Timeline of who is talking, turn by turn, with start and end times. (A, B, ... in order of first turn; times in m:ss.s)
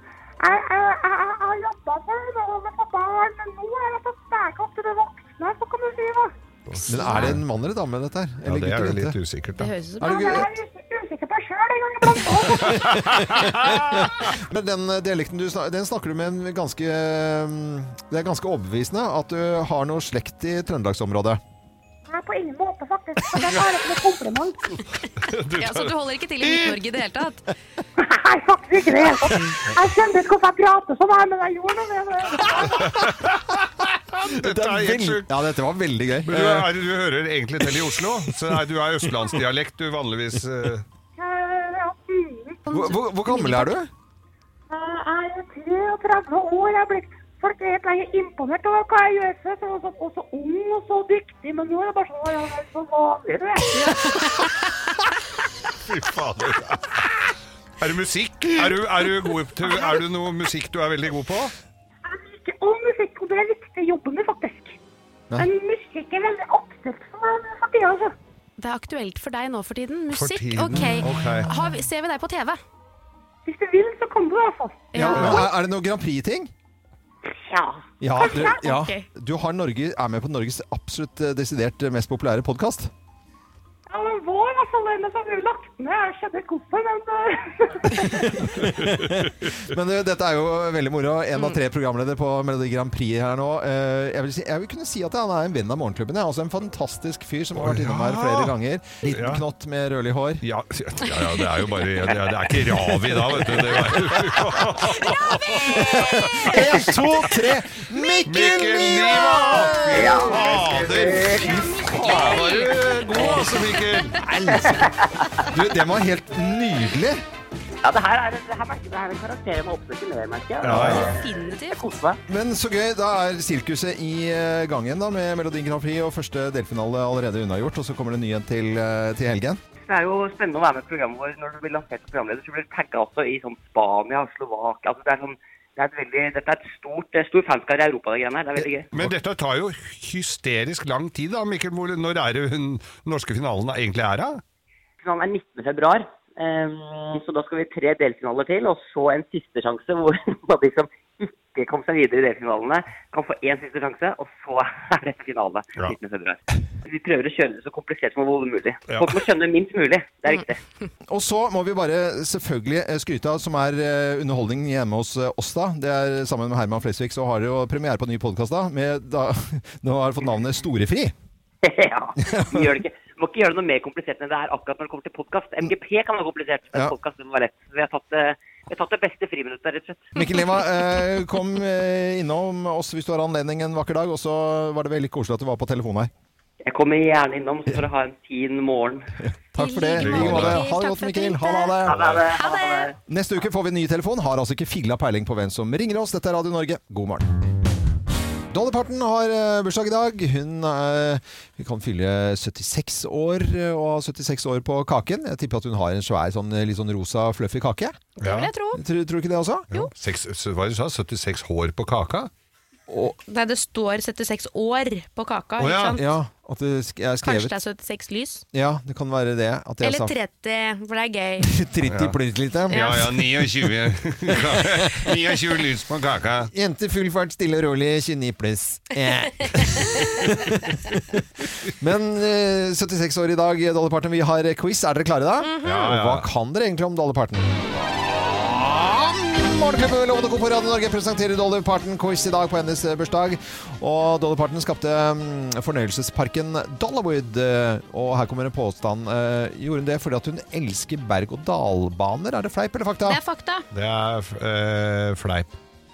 0:00.4-0:06.3 A
0:06.7-0:07.4 B
0:06.8-0:07.3 C
0:06.9-0:09.2 D
0:08.4-0:09.7 B
0:09.6-0:10.4 C
0:10.0-0:10.5 D
0:10.0-0:13.0 A
0:12.6-0:21.4 D
0:12.6-0:14.3 B
0:22.1-0:24.8 A
0:25.2-0:26.0 B
0:25.6-0:27.5 C
0:28.0-0:32.9 A
0:32.7-0:35.3 B
0:32.8-0:33.2 D
0:34.2-0:36.7 D
0:36.3-0:40.8 B
0:41.2-0:42.6 A
0:42.6-0:43.7 C
0:42.7-0:43.9 D
0:44.7-0:53.9 A
0:53.8-0:54.4 C
0:55.9-0:57.0 B
0:57.8-1:01.5 B
1:02.0-1:04.8 A
1:05.4-1:08.1 A
1:08.6-1:12.6 C
1:10.1-1:11.5 B
1:10.7-1:11.2 D
1:13.5-1:15.0 A
1:14.9-1:15.4 C
1:15.0-1:16.5 D
1:15.1-1:15.4 B
1:18.0-1:22.9 D
1:18.2-1:18.6 A
1:18.4-1:19.1 C
1:23.9-1:28.3 A
1:27.9-1:40.4 D
1:28.8-1:29.5 B
1:37.6-1:38.5 B
1:39.0-1:39.4 B
1:40.4-1:46.6 B
1:43.0-1:44.6 D
1:44.9-1:46.6 C
1:45.5-1:50.5 D
1:48.2-1:54.2 B
1:48.9-1:50.3 C
1:49.9-1:51.5 E
1:51.0-1:52.2 D
1:51.4-1:54.2 C
1:53.2-1:53.5 D
1:54.2-1:54.9 D
1:54.5-1:55.3 E
1:55.5-1:57.2 D
1:57.8-2:02.2 E
2:00.6-2:01.2 B
2:00.7-2:01.0 D
2:00.8-2:01.9 C
2:02.3-2:09.6 D
2:09.8-2:18.9 E
2:18.6-2:19.1 D
2:18.9-2:24.4 B
2:25.0-2:40.6 E
2:38.9-2:39.2 B
2:41.1-2:51.1 D
2:51.6-3:00.2 E
2:52.2-2:52.8 D
3:00.2-3:06.1 D
3:06.6-3:09.1 E
3:09.2-3:12.1 D
3:09.6-3:13.0 C
3:10.0-3:10.6 B
3:11.8-3:12.9 E
3:11.9-3:12.2 B
3:13.0-3:17.3 D
3:18.5-3:28.0 D
3:28.2-3:28.8 C
3:28.2-3:28.5 B
3:28.8-3:29.7 D
3:29.7-3:32.3 B
3:32.9-3:33.2 D
3:33.3-3:36.1 C
3:35.6-3:36.0 B
3:35.9-3:37.6 D
3:37.2-3:38.4 C
3:38.5-3:40.2 D
3:39.8-3:41.5 C
3:41.4-3:43.5 D
3:41.9-3:42.2 B
3:42.7-3:46.5 B
3:42.7-3:43.1 C
3:44.3-3:45.1 D
3:46.5-4:13.2 D
3:55.4-3:55.8 C
3:55.6-3:56.3 B
4:13.1-4:13.7 C
4:13.7-4:15.5 B